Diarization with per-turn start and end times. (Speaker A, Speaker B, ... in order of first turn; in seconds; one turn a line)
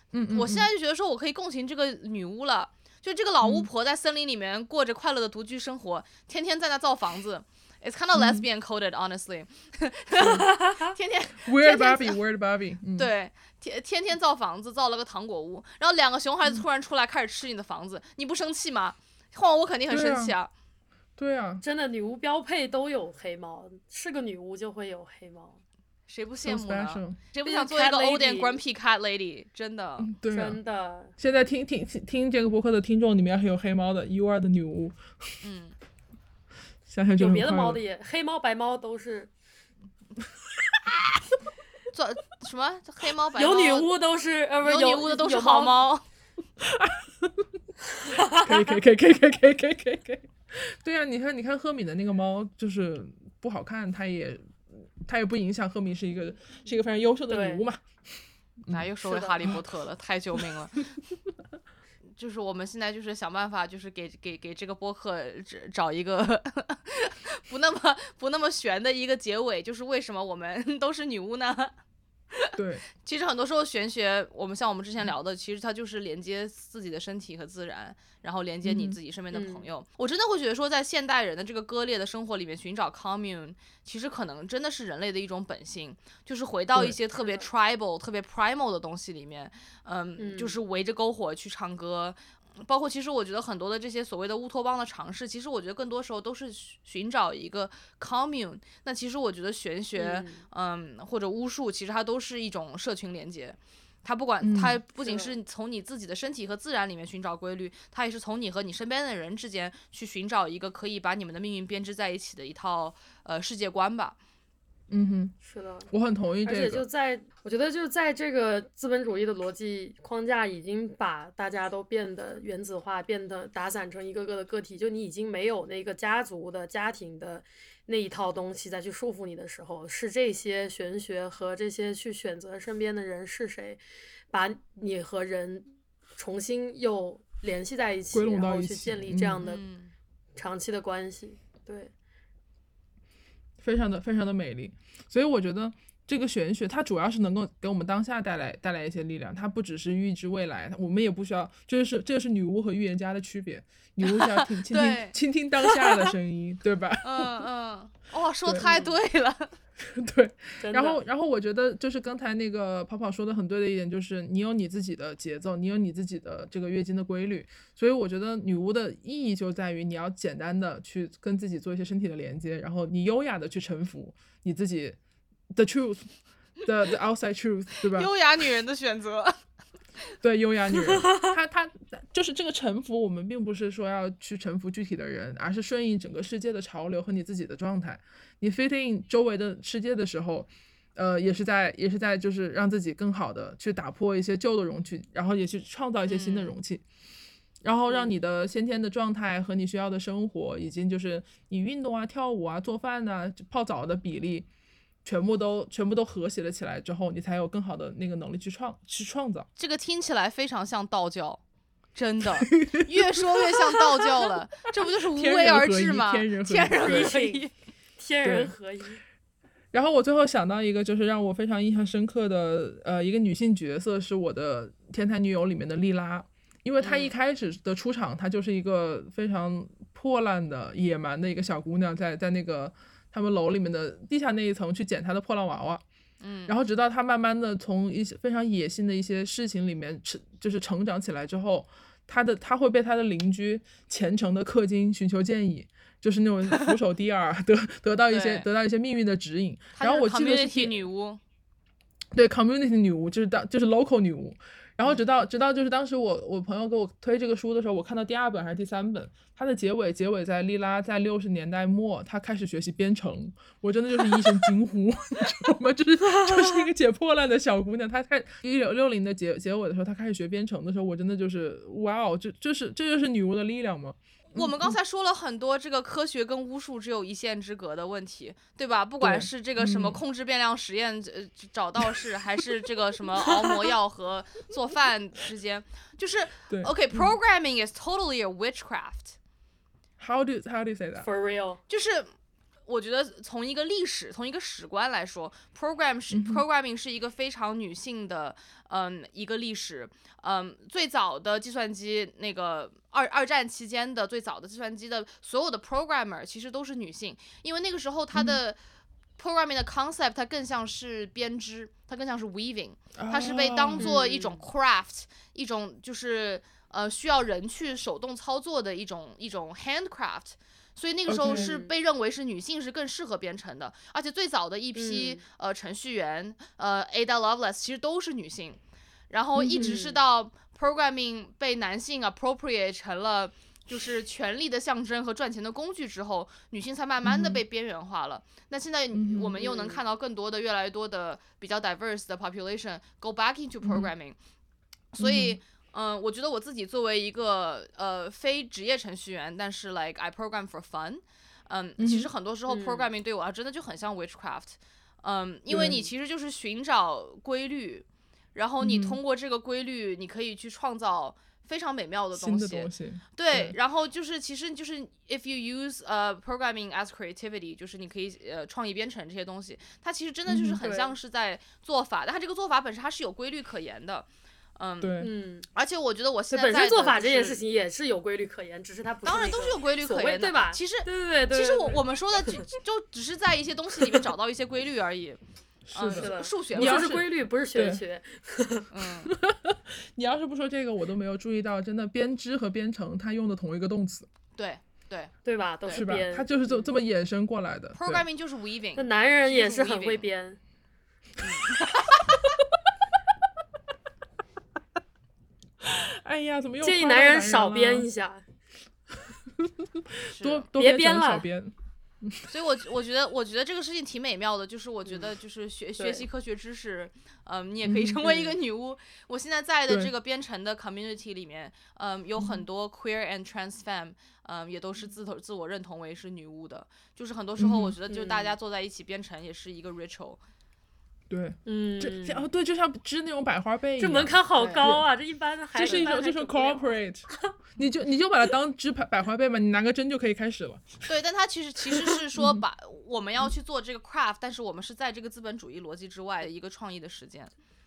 Speaker A: 0.1-0.7
Speaker B: 0.3-12.2
Speaker A: 3.4-3.7
Speaker A: 8.1-8.4
Speaker A: 10.2-10.5
Speaker C: 10.5-10.9
Speaker A: 11.4-13.1
Speaker B: 12.9-20.5
Speaker A: 19.9-20.3
Speaker A: 21.2-21.6
Speaker C: 21.6-25.6
Speaker B: 26.1-30.1
Speaker A: 26.4-27.2
Speaker C: 27.4-28.6
Speaker A: 30.0-30.6
Speaker C: 30.3-31.1
Speaker A: 31.2-35.0
Speaker B: 35.4-35.7
Speaker A: 36.9-37.8
Speaker C: 37.2-39.3
Speaker B: 41.9-43.9
Speaker C: 43.4-45.9
Speaker B: 44.6-46.0
Speaker A: 46.6-47.5
Speaker C: 48.0-48.8
Speaker A: 48.3-58.0
Speaker C: 57.3-57.6
Speaker A: 58.6-58.9
Speaker B: 58.7-60.8
Speaker C: 59.0-59.4
Speaker B: 62.2-71.7
Speaker B: 72.3-114.2
Speaker A: 72.5-72.8
Speaker A: 78.6-79.0
Speaker C: 79.3-79.7
Speaker C: 87.1-87.5
Speaker C: 90.2-90.6
Speaker C: 100.0-100.5
Speaker A: 104.4-104.8
Speaker C: 105.0-105.3
Speaker A: 114.9-115.3
Speaker C: 115.4-115.9
Speaker A: 115.9-116.8
Speaker C: 116.4-139.6
Speaker A: 138.1-139.4
Speaker B: 139.4-139.9
Speaker C: 140.3-141.9
Speaker A: 143.6-157.3
Speaker B: 154.0-155.2
Speaker B: 157.0-159.5
Speaker C: 158.6-159.0
Speaker A: 159.8-175.0
Speaker C: 160.6-161.0
Speaker A: 175.5-176.1
Speaker A: 176.6-178.1
Speaker B: 177.9-179.4
Speaker A: 180.2-196.8
Speaker C: 180.9-181.2
Speaker B: 196.1-196.6
Speaker A: 197.6-204.4
Speaker C: 197.9-198.1
Speaker A: 205.1-209.5
Speaker B: 209.6-211.4
Speaker B: 211.9-217.5
Speaker A: 212.4-214.1
Speaker A: 214.8-217.1
Speaker C: 216.7-217.5
Speaker C: 218.0-219.0
Speaker A: 218.2-218.5
Speaker A: 219.7-235.8
Speaker B: 226.8-227.1
Speaker B: 236.2-236.5
Speaker A: 236.5-250.8
Speaker B: 248.1-248.5
Speaker B: 249.8-251.2
Speaker A: 252.1-274.7
Speaker C: 266.0-266.7
Speaker B: 274.3-289.1
Speaker A: 279.0-280.0
Speaker A: 286.5-287.1
Speaker A: 290.0-291.1
Speaker C: 291.0-291.6
Speaker B: 291.7-292.1
Speaker B: 292.7-308.6
Speaker A: 296.1-296.4
Speaker A: 308.1-308.4
Speaker B: 309.2-328.6
Speaker A: 312.9-313.9
Speaker C: 313.8-314.4
Speaker A: 321.1-321.5
Speaker C: 321.3-321.7
Speaker C: 324.7-325.2
Speaker B: 329.1-344.2
Speaker A: 329.3-329.8
Speaker C: 329.6-330.0
Speaker A: 337.0-337.4
Speaker A: 338.9-339.4
Speaker C: 339.2-339.8
Speaker A: 343.6-343.9
Speaker B: 344.9-375.0
Speaker A: 345.0-345.4
Speaker A: 351.8-352.1
Speaker C: 352.5-352.9
Speaker A: 355.5-355.8
Speaker A: 358.6-359.0
Speaker A: 362.1-363.6
Speaker A: 370.3-370.6
Speaker C: 370.6-370.9
Speaker A: 374.8-375.1
Speaker C: 375.0-375.5
Speaker B: 375.5-377.4
Speaker C: 376.3-382.4
Speaker B: 379.0-385.2
Speaker A: 385.7-387.8
Speaker B: 385.7-387.0
Speaker C: 385.9-388.7
Speaker B: 388.7-389.1
Speaker A: 389.1-394.1
Speaker B: 394.3-395.1
Speaker C: 395.2-396.7
Speaker B: 395.6-395.9
Speaker A: 395.7-398.0
Speaker B: 397.7-400.1
Speaker C: 398.8-400.4
Speaker B: 401.2-402.0
Speaker A: 405.6-407.9
Speaker C: 406.6-408.2
Speaker A: 409.4-412.3
Speaker B: 410.1-410.5
Speaker C: 410.6-411.3
Speaker B: 412.3-430.2
Speaker C: 415.8-416.1
Speaker A: 417.6-418.1
Speaker A: 427.4-427.7
Speaker C: 427.9-428.4
Speaker A: 431.1-434.8
Speaker C: 431.4-432.3
Speaker C: 433.8-437.4
Speaker B: 434.4-434.7
Speaker A: 435.6-440.9
Speaker B: 440.9-447.3
Speaker A: 441.8-442.4